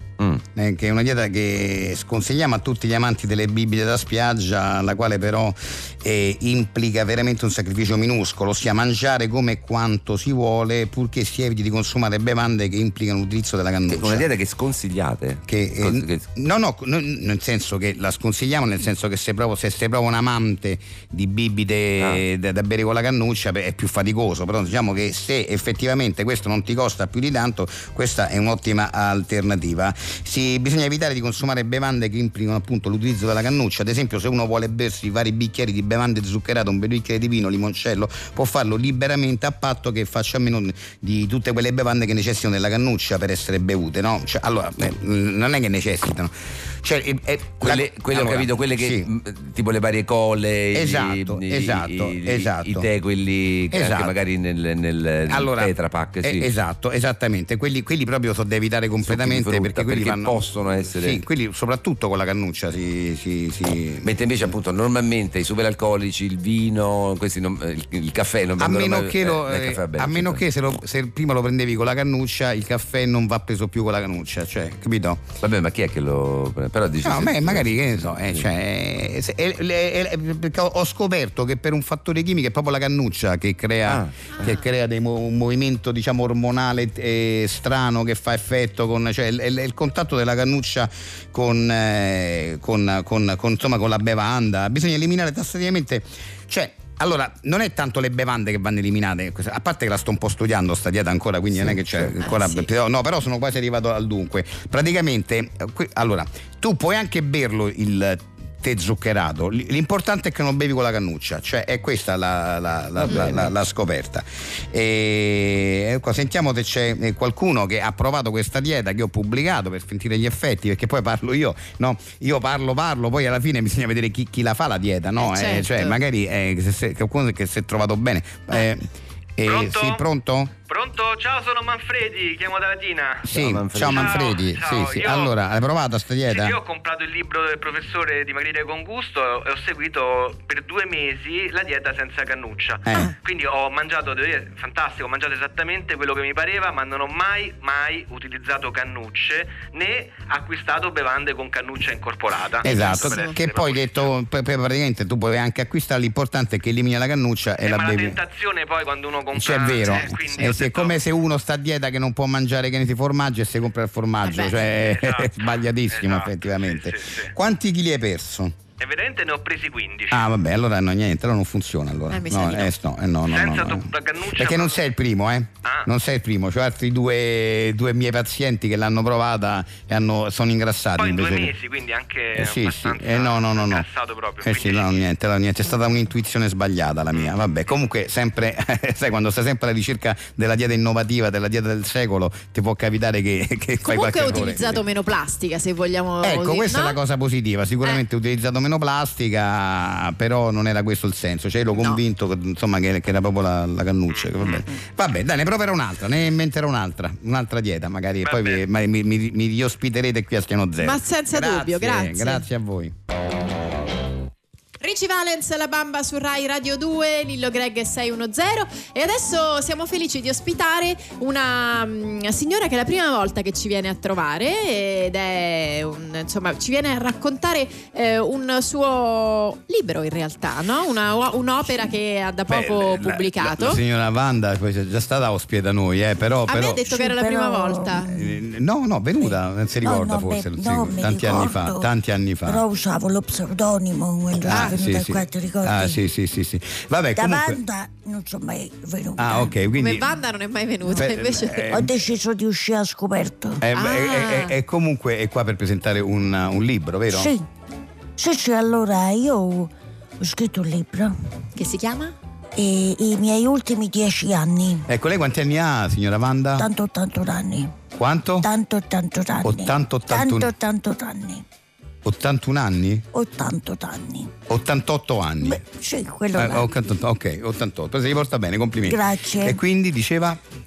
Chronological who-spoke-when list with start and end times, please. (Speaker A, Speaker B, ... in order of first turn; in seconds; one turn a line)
Speaker A: 0.6-14.3
Speaker B: 13.9-16.3
Speaker A: 15.5-49.1
Speaker B: 47.6-56.5
Speaker A: 50.7-52.9
Speaker A: 53.7-54.1
Speaker A: 55.3-60.4
Speaker B: 59.0-61.2
Speaker A: 60.9-64.1
Speaker B: 64.0-70.4
Speaker A: 68.6-75.2
Speaker B: 75.4-78.5
Speaker A: 77.0-130.5
Speaker B: 83.9-84.2
Speaker B: 101.6-102.1
Speaker C: 102.2-102.7
Speaker B: 113.0-113.5
Speaker C: 125.2-126.0
Speaker D: 129.4-130.0
Speaker D: 130.7-133.3
Speaker A: 133.2-136.6
Speaker B: 133.3-134.3
Speaker D: 133.8-135.3
Speaker D: 136.3-154.1
Speaker C: 152.6-153.4
Speaker A: 152.6-158.2
Speaker D: 157.6-161.0
Speaker A: 159.3-168.6
Speaker C: 164.2-164.6
Speaker D: 164.7-167.3
Speaker D: 168.8-170.3
Speaker A: 170.1-181.5
Speaker C: 172.1-172.7
Speaker D: 173.3-174.8
Speaker D: 181.0-185.0
Speaker A: 182.3-183.9
Speaker A: 184.4-194.8
Speaker C: 193.8-197.0
Speaker A: 196.2-212.9
Speaker D: 204.2-204.6
Speaker D: 208.2-208.6
Speaker C: 210.8-212.4
Speaker C: 214.8-233.8
Speaker A: 232.5-236.8
Speaker C: 236.5-238.1
Speaker E: 236.9-238.1
Speaker A: 238.1-242.6
Speaker E: 239.8-241.9
Speaker E: 242.4-246.0
Speaker C: 244.5-244.8
Speaker A: 244.5-247.6
Speaker E: 247.2-249.6
Speaker A: 249.2-250.1
Speaker C: 249.8-251.9
Speaker A: 251.0-251.9
Speaker E: 251.7-253.6
Speaker A: 253.6-257.3
Speaker C: 253.8-254.5
Speaker E: 257.1-257.5
Speaker E: 258.2-261.1
Speaker C: 261.6-262.1
Speaker E: 262.6-264.9
Speaker A: 264.9-266.7
Speaker E: 266.6-267.7
Speaker A: 268.0-268.5
Speaker E: 268.4-271.4
Speaker A: 269.4-270.5
Speaker A: 272.0-273.1
Speaker E: 273.1-274.4
Speaker A: 274.5-275.6
Speaker E: 275.4-276.7
Speaker A: 276.4-280.4
Speaker E: 278.8-279.6